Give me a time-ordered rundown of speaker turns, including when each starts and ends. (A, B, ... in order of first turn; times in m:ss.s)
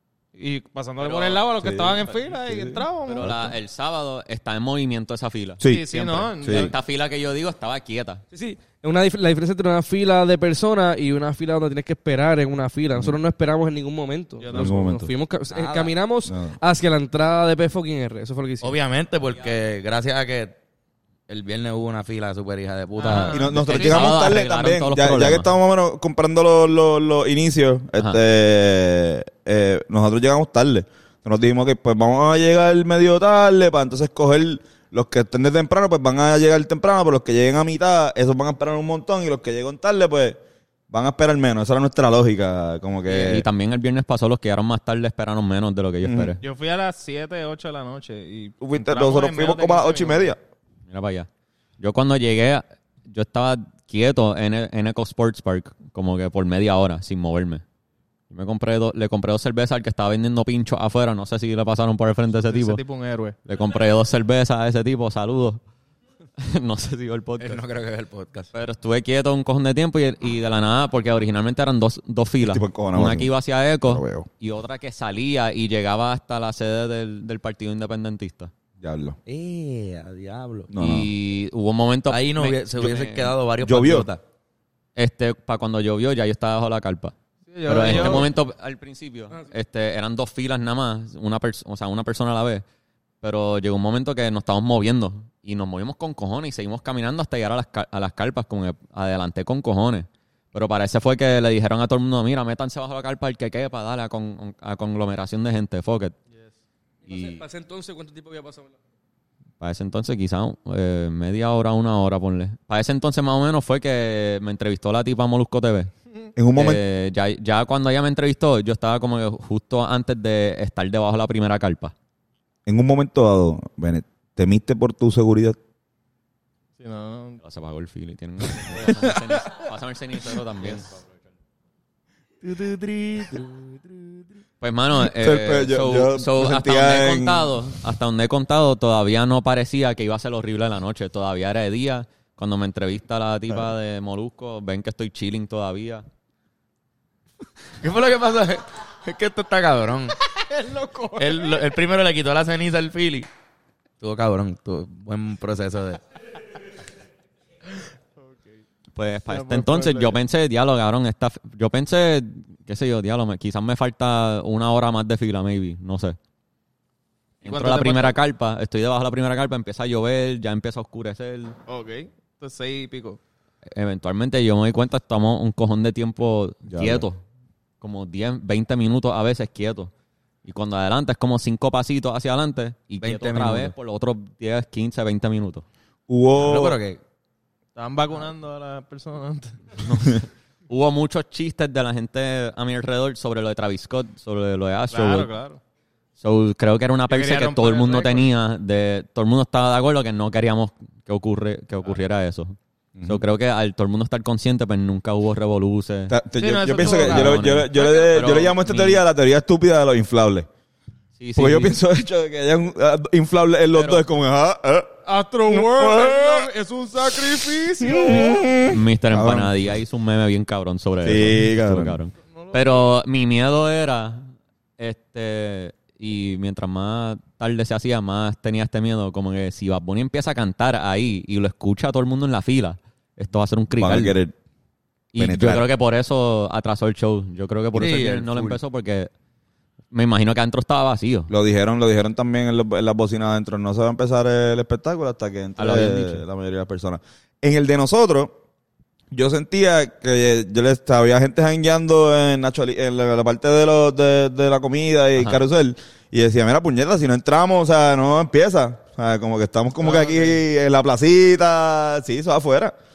0:00.3-0:03.4 A
0:01.0-0:01.4 B
0:01.6-0:03.5 C
0:03.0-0:08.2 B
0:05.6-0:05.9 C
0:05.6-0:06.7 A
0:06.4-0:06.7 C
0:08.3-0:18.7 D
0:14.4-0:14.8 A
0:14.5-0:15.1 C
0:15.5-0:15.9 E
0:16.2-0:16.6 C
0:18.6-0:20.5 E
0:21.3-0:23.5 E
0:23.0-0:24.2 A
0:23.1-0:40.4 C
0:23.6-0:25.5 B
0:40.9-0:43.4 C
0:43.0-0:46.4 B
0:46.0-0:46.3 C
0:46.4-0:50.3 A
0:48.6-0:50.4 C
0:50.9-0:51.3 B
0:51.8-0:57.6 B
0:58.3-1:02.8 B
1:02.4-1:03.4 A
1:03.4-1:05.6 B
1:06.4-1:07.6 B
1:07.4-1:08.5 E
1:08.5-1:18.5 B
1:12.4-1:13.3 C
1:13.8-1:14.3 C
1:18.8-1:19.2 C
1:19.2-1:20.7 E
1:20.7-1:21.1 C
1:20.8-1:23.3 B
1:22.1-1:24.2 E
1:23.6-1:24.1 C
1:25.0-1:32.6 B
1:27.5-1:28.3 A
1:33.2-1:46.2 B
1:47.0-1:48.8 D
1:47.1-1:47.4 B
1:49.6-1:55.9 B
1:56.4-1:56.8 C
1:56.5-2:01.9 B
2:02.6-2:05.6 C
2:06.8-2:07.4 A
2:07.4-2:11.2 B
2:08.7-2:09.2 C
2:12.4-2:13.6 E
2:14.6-2:26.0 B
2:14.9-2:17.6 C
2:27.8-2:30.2 E
2:30.2-2:31.7 A
2:31.2-2:33.3 E
2:34.0-2:36.0 E
2:38.2-2:38.5 A
2:38.9-2:46.2 B
2:39.3-2:40.2 A
2:47.4-2:51.6 B
2:47.5-2:48.1 E
2:51.7-2:53.2 A
2:53.7-2:57.2 B
2:56.7-2:57.0 C
2:57.8-2:59.9 B
3:00.4-3:05.6 B
3:03.0-3:03.7 E
3:06.1-3:06.8 C
3:06.4-3:07.0 E
3:07.8-3:09.8 A
3:09.8-3:15.3 B
3:14.9-3:15.6 A
3:16.2-3:26.2 B
3:17.1-3:18.3 A
3:22.9-3:23.2 C
3:26.1-3:30.5 C
3:26.4-3:27.6 A
3:26.8-3:29.0 B
3:31.2-3:31.7 B
3:31.4-3:36.5 C
3:33.7-3:34.0 B
3:35.0-3:38.5 A
3:37.8-3:39.7 C
3:38.7-3:54.2 B
3:41.0-3:42.0 C
3:42.3-3:42.8 A
3:53.8-3:54.3 C
3:55.1-3:59.1 B
3:55.2-3:55.7 C
3:57.7-3:58.6 E
3:59.9-4:01.3 B
4:01.3-4:08.3 C
4:05.6-4:06.2 B
4:09.1-4:22.7 C
4:19.8-4:20.4 A